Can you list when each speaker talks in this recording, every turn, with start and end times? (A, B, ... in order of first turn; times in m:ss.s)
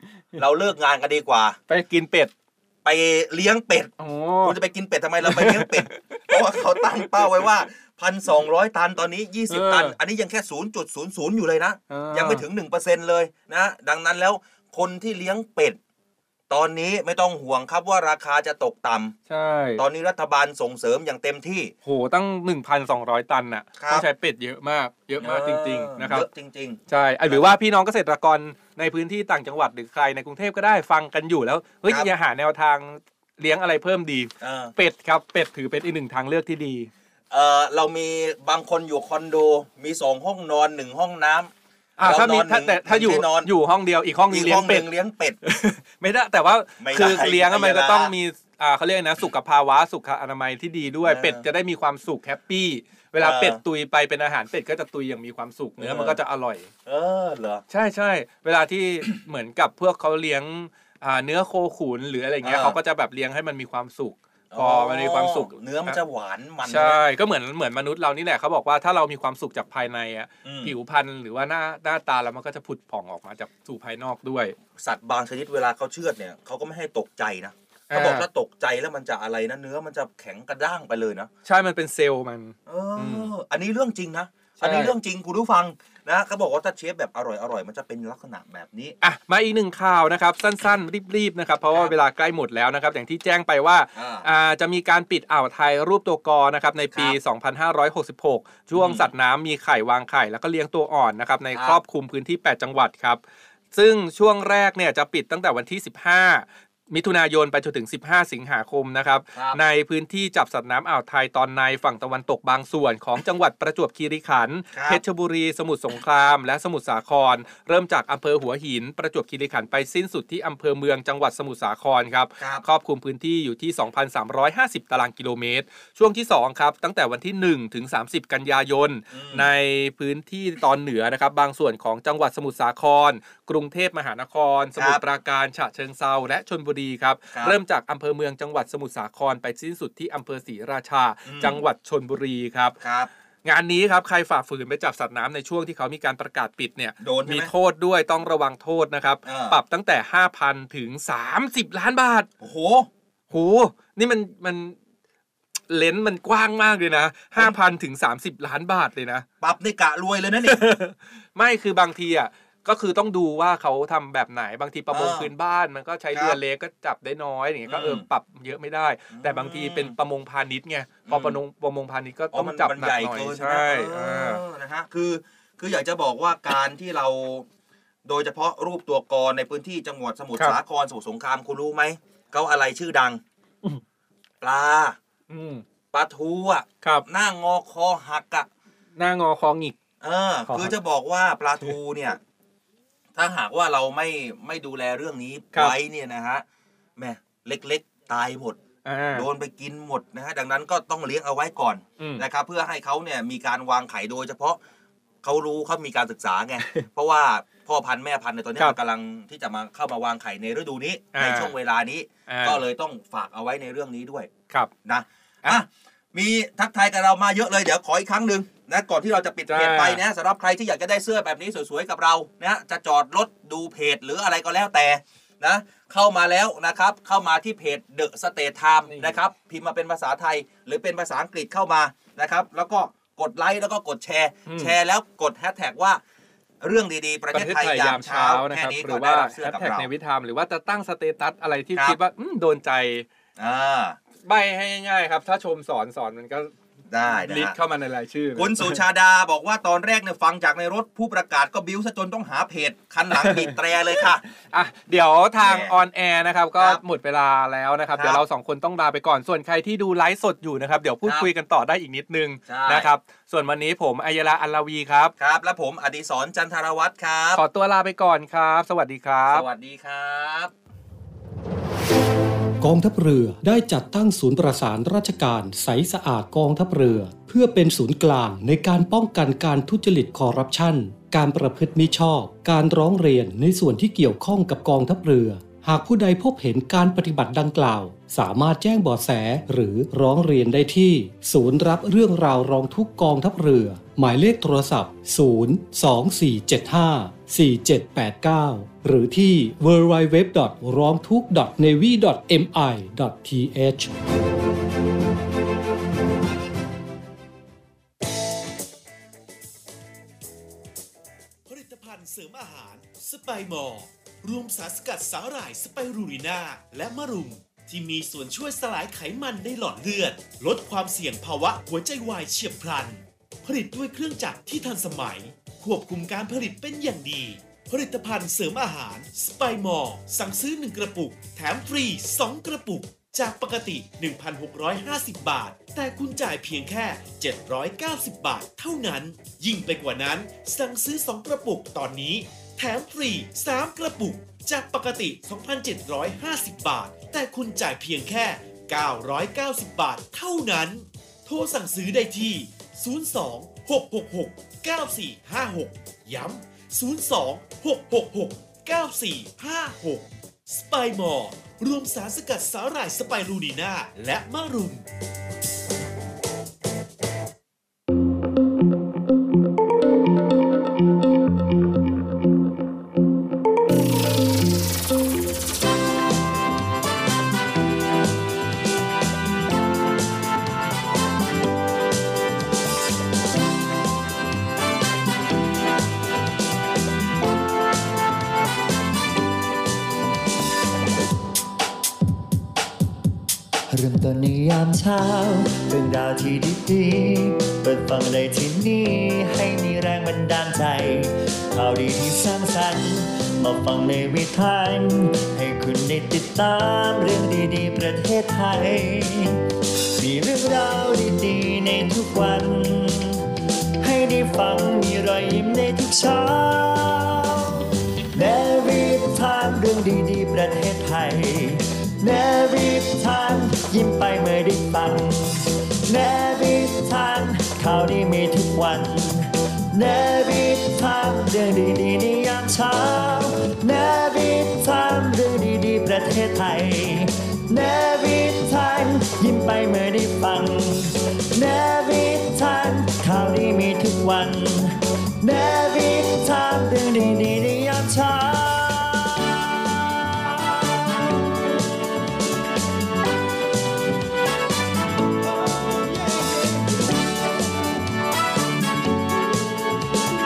0:00.4-0:01.6 A
0:01.7-0:02.3 B
0:02.8-0:15.8 A
0:04.0-0:04.6 B
0:05.2-0:06.3 B
0:09.5-0:10.0 B
0:11.9-0:12.4 B
0:16.5-0:19.1 A
0:19.3-0:19.8 B
0:19.8-0:21.7 A
0:21.8-0:26.2 B
0:23.8-0:24.0 A
0:25.2-0:27.5 A
0:26.9-0:36.9 B
0:34.4-0:34.7 A
0:37.3-0:41.5 A
0:42.0-0:44.8 B
0:42.0-0:43.5 A
0:44.3-0:45.4 A
0:45.4-0:56.7 B
0:46.8-0:48.1 A
0:51.0-0:51.4 A
0:53.2-0:53.6 A
0:55.8-0:56.2 A
0:56.8-0:57.6 A
0:57.7-1:06.0 B
1:02.4-1:02.8 A
1:04.5-1:07.0 A
1:06.6-1:14.5 B
1:10.4-1:10.7 A
1:14.8-1:21.3 A
1:17.9-1:18.2 B
1:21.4-1:23.3 B
1:22.7-1:29.0 A
1:24.6-1:24.9 B
1:29.0-1:43.2 B
1:34.0-1:34.3 A
1:38.8-1:39.1 A
1:41.5-1:41.8 A
1:43.7-2:22.7 B
1:49.3-1:49.6 A
1:54.7-1:55.0 A
2:02.4-2:02.6 A
2:09.1-2:09.5 A
2:21.3-2:21.6 A
2:22.8-2:23.1 A
2:23.4-2:32.3 B
2:27.0-2:27.5 A
2:29.2-2:29.6 A
2:32.4-2:32.9 A
2:33.3-2:34.8 B
2:35.7-2:39.2 B
2:39.4-2:40.6 A
2:40.4-2:54.4 B
2:44.9-2:45.3 A
2:47.7-2:48.0 A
2:49.1-2:49.9 A
2:51.1-2:51.4 A
2:52.3-2:57.4 A
2:58.0-3:03.2 A
3:04.4-3:05.0 A
3:05.3-3:05.6 B
3:05.9-3:08.5 A
3:09.0-3:09.8 B
3:10.0-3:12.2 A
3:10.5-3:10.7 B
3:13.2-3:16.4 A
3:17.0-3:18.6 A
3:18.8-3:19.2 B
3:19.1-3:24.6 A
3:25.2-3:34.3 A
3:31.1-3:31.5 B
3:32.3-3:32.6 B
3:34.8-3:56.0 A
3:39.5-3:40.0 B
3:48.9-3:49.2 B
3:54.5-3:54.7 B
3:56.6-3:59.9 A
3:57.3-4:03.1 B
4:03.4-4:04.0 A
4:04.2-4:06.5 B
4:06.9-4:07.6 A
4:07.1-4:08.8 B
4:08.4-4:14.2 A
4:13.2-4:25.1 B
4:15.4-4:15.7 A
4:22.5-4:22.9 A
4:25.2-4:27.4 A
4:27.4-4:29.4 B
4:29.3-4:30.5 A
4:32.6-5:03.9 C
5:11.4-6:04.8 D
6:33.7-6:49.4 E
6:50.0-6:53.3 E
6:53.8-7:31.2 E
7:35.4-7:36.5 E